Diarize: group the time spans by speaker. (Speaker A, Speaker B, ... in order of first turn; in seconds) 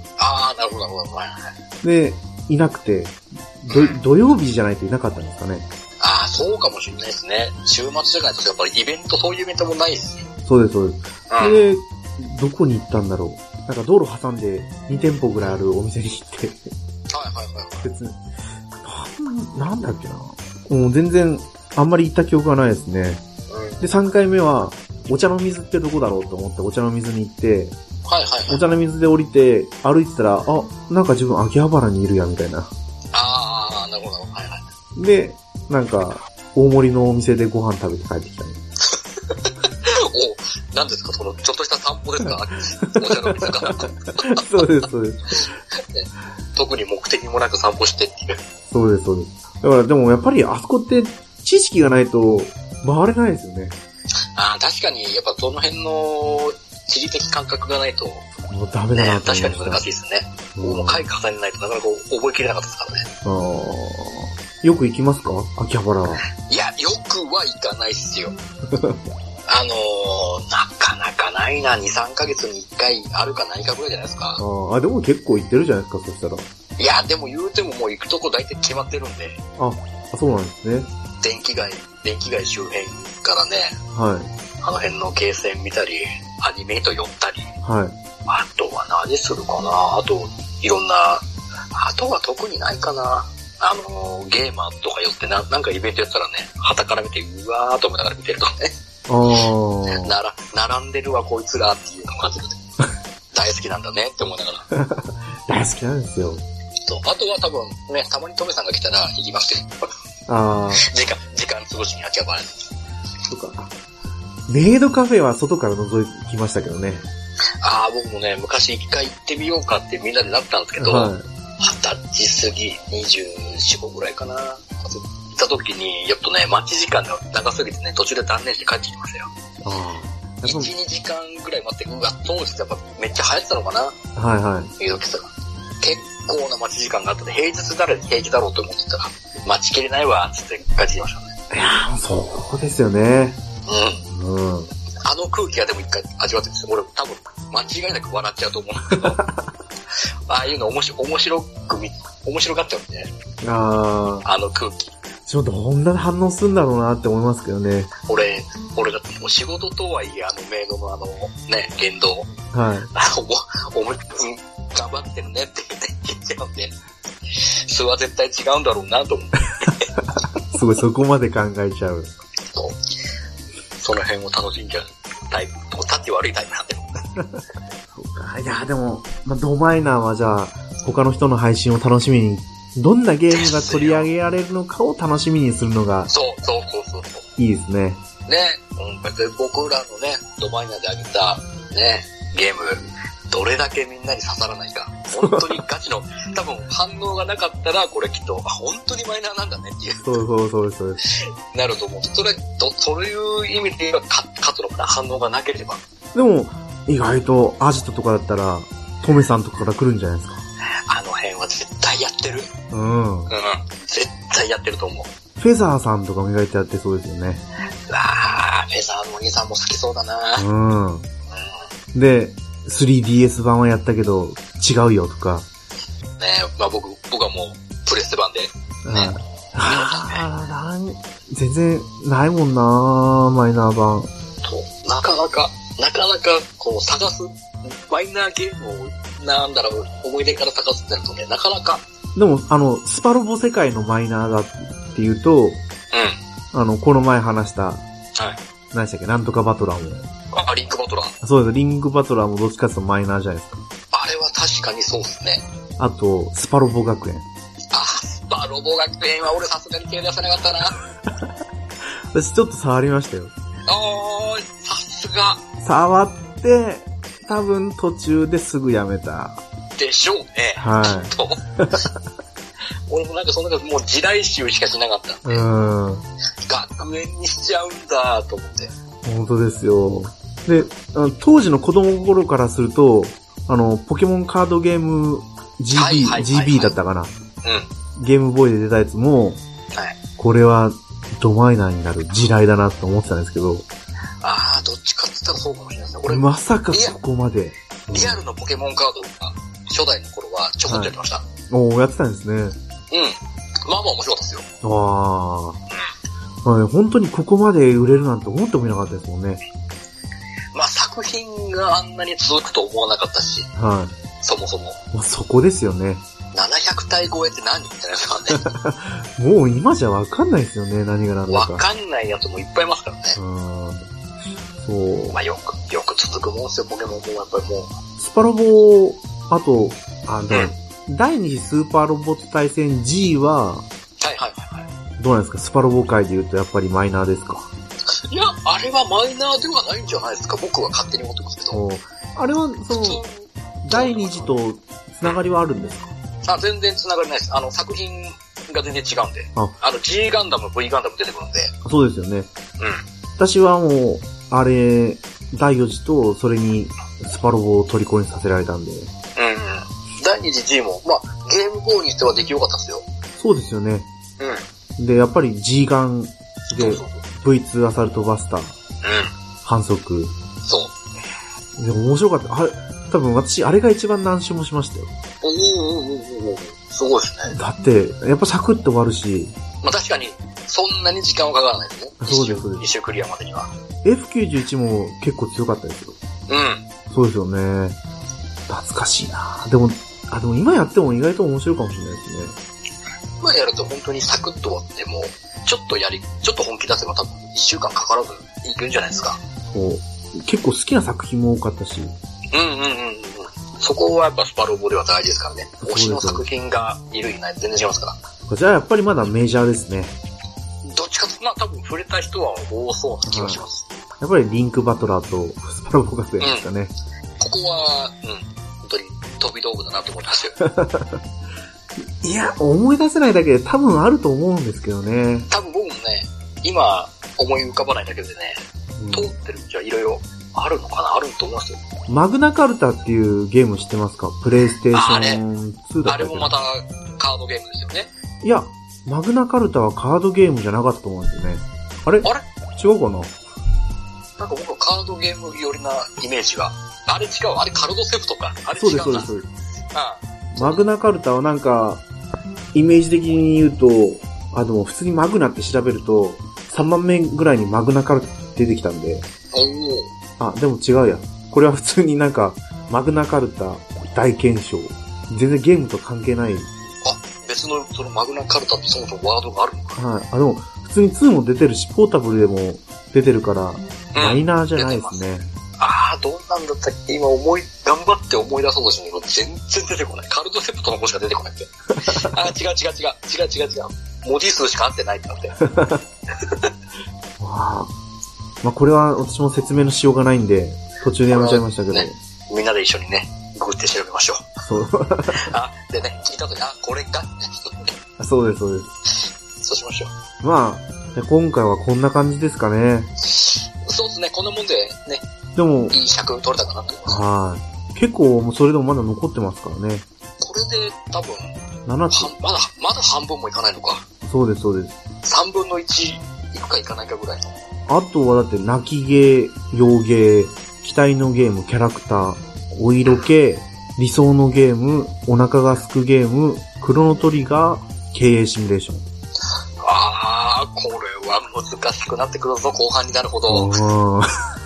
Speaker A: 0.2-1.5, 3.7-4.0, 6.0-10.2, 11.3-11.6, 17.1-17.8, 23.5-23.8, 28.0-28.6, 33.1-34.6, 38.9-44.4, 45.8-48.4, 54.3-58.2, 58.9-63.1, 66.4-68.4, 69.5-74.4, 76.8-79.4, 81.2-83.8, 84.6-87.5, 88.2-98.7, 99.9-102.6, 103.3-104.7, 106.8-109.7, 110.8-112.5, 117.6-129.3, 130.4-133.9, 134.8-135.3, 135.8-141.3, 143.7-144.0, 145.0-149.2, 150.3-153.1, 154.2-154.9, 158.1-162.3, 162.9-166.8, 167.3-169.8, 172.5-172.8, 173.8-177.0, 183.3-184.1, 186.1-187.2, 188.2-200.1, 201.1-205.8, 210.9-212.5, 213.3-215.1, 217.9-220.4, 221.3-221.6, 226.2-229.1, 229.7-230.2, 234.4-241.8, 245.9-246.2, 250.3-251.1, 253.9-255.4, 257.7-260.8, 263.7-265.4, 269.8-271.4, 272.9-275.4, 276.4-278.7, 285.7-286.7, 287.4-287.7, 289.7-290.0, 294.2-297.0, 297.9-301.2, 302.9-304.4, 310.5-313.5, 314.2-314.8, 316.3-318.4, 321.3-323.2, 325.1-327.7, 334.0-334.6, 337.9-341.6, 342.7-344.3, 346.2-351.5, 352.6-352.8, 359.1-362.8, 364.2-364.4, 366.6-367.0, 368.8-369.1, 370.4-370.7, 375.2-377.3, 379.6-383.5, 386.3-386.6, 393.2-399.2, 402.3-408.0, 410.7-413.6, 416.2-416.4, 417.2-420.4, 425.3-431.6, 434.7-435.2, 435.8-437.9, 444.2-449.1, 449.7-450.6, 459.3-459.9, 466.8-469.8, 473.9-475.0, 475.6-485.4, 486.1-486.5, 491.1-494.3, 495.1-497.7, 499.4-499.9, 503.0-505.0, 505.7-507.0, 510.2-511.3, 511.9-513.9, 515.0-517.3, 529.6-533.6
Speaker B: 1.8-5.7, 10.4-16.7, 17.8-18.2, 18.8-23.2, 23.8-27.8, 28.5-32.7, 35.0-38.6, 42.8-45.5, 48.7-53.8, 58.4-59.8, 60.5-61.0, 63.2-66.2, 68.7-69.0, 74.4-76.5, 79.6-80.9, 83.9-84.3, 87.6-88.0, 99.1-100.1, 104.7-106.4, 110.3-110.9, 113.3-113.7, 114.5-117.0, 120.8-121.3, 129.6-130.7, 134.2-134.7, 141.5-143.4, 144.1-144.7, 148.9-149.5, 153.4-154.2, 155.2-157.9, 162.5-162.9, 169.7-172.1, 177.2-186.1, 187.4-188.0, 195.2-195.6, 200.0-201.0, 206.1-210.4, 212.7-213.3, 215.4-217.4, 220.4-221.1, 221.9-225.5, 228.8-234.1, 242.2-245.6, 246.5-247.8, 248.7-250.1, 251.2-253.6, 255.8-257.2, 261.1-261.3, 262.1-263.3, 265.6-269.4, 270.6-271.9, 275.2-276.0, 279.0-287.1, 288.0-289.4, 290.2-293.7, 296.1-298.2, 300.7-300.9, 301.5-302.6, 304.6-305.6, 306.4-309.4, 313.5-313.9, 314.9-316.0, 318.3-321.6, 323.1-323.9, 324.6-325.2, 328.0-333.7, 335.0-337.5, 341.5-343.0, 343.6-345.9, 351.6-352.3, 353.2-358.9, 363.2-363.9, 364.8-368.6, 369.4-370.1, 371.6-374.9, 377.3-379.4, 382.0-382.7, 383.8-386.0, 386.9-387.8, 388.5-392.4, 399.5-401.9, 405.6-406.3, 408.3-409.9, 413.1-413.4, 414.0-416.7, 420.4-421.0, 422.0-425.3, 428.8-429.1, 431.9-436.3, 438.2-443.1, 448.6-449.3, 450.3-451.8, 452.5-459.1, 460.2-466.5, 469.8-475.3, 481.8-482.2, 485.4-485.8, 487.2-487.7, 488.4-491.9, 494.4-495.3, 498.0-498.7, 500.2-502.9, 505.3-505.8, 506.9-509.9, 511.6-512.1, 514.0-514.8, 517.7-528.8, 533.3-534.1